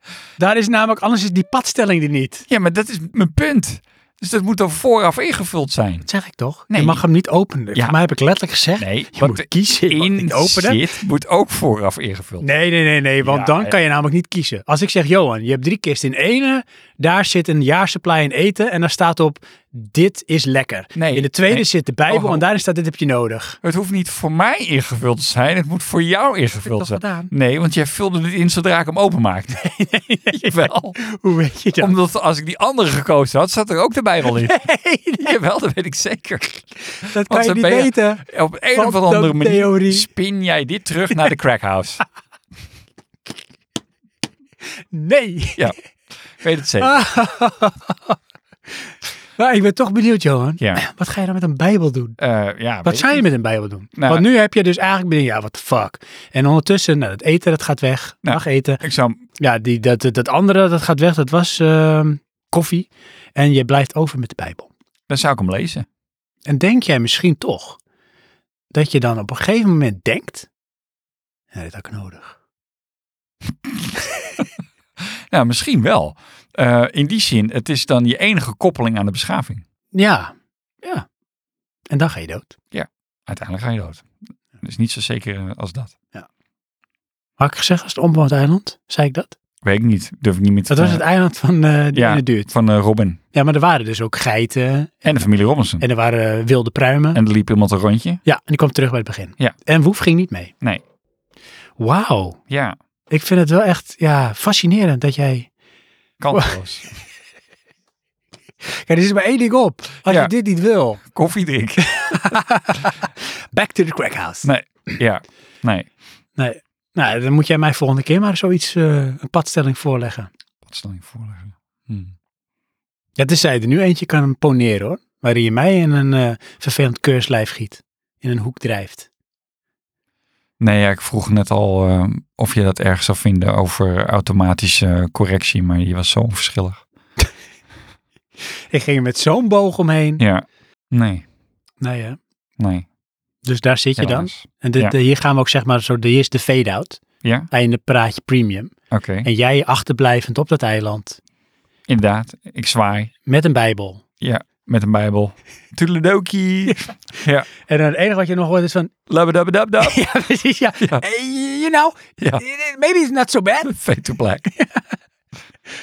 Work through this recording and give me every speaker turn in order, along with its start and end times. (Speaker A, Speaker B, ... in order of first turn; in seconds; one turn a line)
Speaker A: 0.4-2.5
Speaker B: 2.5-6.1
Speaker A: 6.0-10.8
Speaker B: 6.7-7.0
Speaker B: 8.8-12.4
Speaker A: 12.4-23.6
Speaker B: 13.2-13.7
Speaker B: 20.9-22.4
Speaker B: 23.6-31.0
Speaker A: 26.7-27.3
Speaker A: 29.6-31.9
Speaker B: 31.8-34.6
Speaker A: 34.2-35.3
Speaker B: 35.1-42.0
Speaker A: 37.0-40.1
Speaker A: 44.9-45.7
Speaker B: 46.4-47.0
Speaker A: 46.8-48.1
Speaker A: 49.4-52.2
Speaker B: 52.2-53.2
Speaker A: 52.8-58.8
Speaker B: 54.0-54.2
Speaker B: 58.2-59.2
Speaker A: 59.4-64.7
Speaker B: 65.1-65.8
Speaker A: 66.5-67.8
Speaker A: 68.7-70.5
Speaker A: 71.5-72.3
Speaker B: 75.3-79.6
Speaker A: 79.9-81.0
Speaker A: 81.9-82.5
Speaker B: 82.7-84.0
Speaker B: 84.6-85.9
Speaker A: 87.4-89.3
Speaker B: 89.6-91.0
Speaker A: 90.7-92.5
Speaker B: 91.9-93.2
Speaker A: 93.3-95.0
Speaker B: 95.0-95.8
Speaker A: 95.8-97.2
Speaker B: 97.1-98.2
Speaker A: 98.2-100.5
Speaker A: 101.8-102.4
Speaker B: 102.5-102.7
Speaker A: 103.1-105.5
Speaker B: 106.2-106.8
Speaker A: 106.3-106.6
Speaker A: 108.8-111.0
Speaker B: 110.1-110.3
Speaker B: 111.1-112.3
Speaker A: 111.8-114.5
Speaker B: 114.4-115.9
Speaker A: 116.4-120.3
Speaker B: 120.6-122.1
Speaker A: 123.2-129.1
Speaker B: 130.6-136.8
Speaker A: 138.7-140.2
Speaker B: 140.2-141.2
Speaker A: 141.8-142.2
Speaker B: 142.6-142.8
Speaker A: 143.4-148.7
Speaker B: 144.0-144.9
Speaker B: 147.2-147.5
Speaker B: 148.9-149.3
Speaker A: 149.2-151.2
Speaker B: 151.9-153.1
Speaker A: 153.2-154.0
Speaker B: 154.2-157.5
Speaker A: 157.6-158.9
Speaker B: 159.1-160.1
Speaker A: 159.8-163.7
Speaker B: 163.6-164.5
Speaker A: 164.5-164.8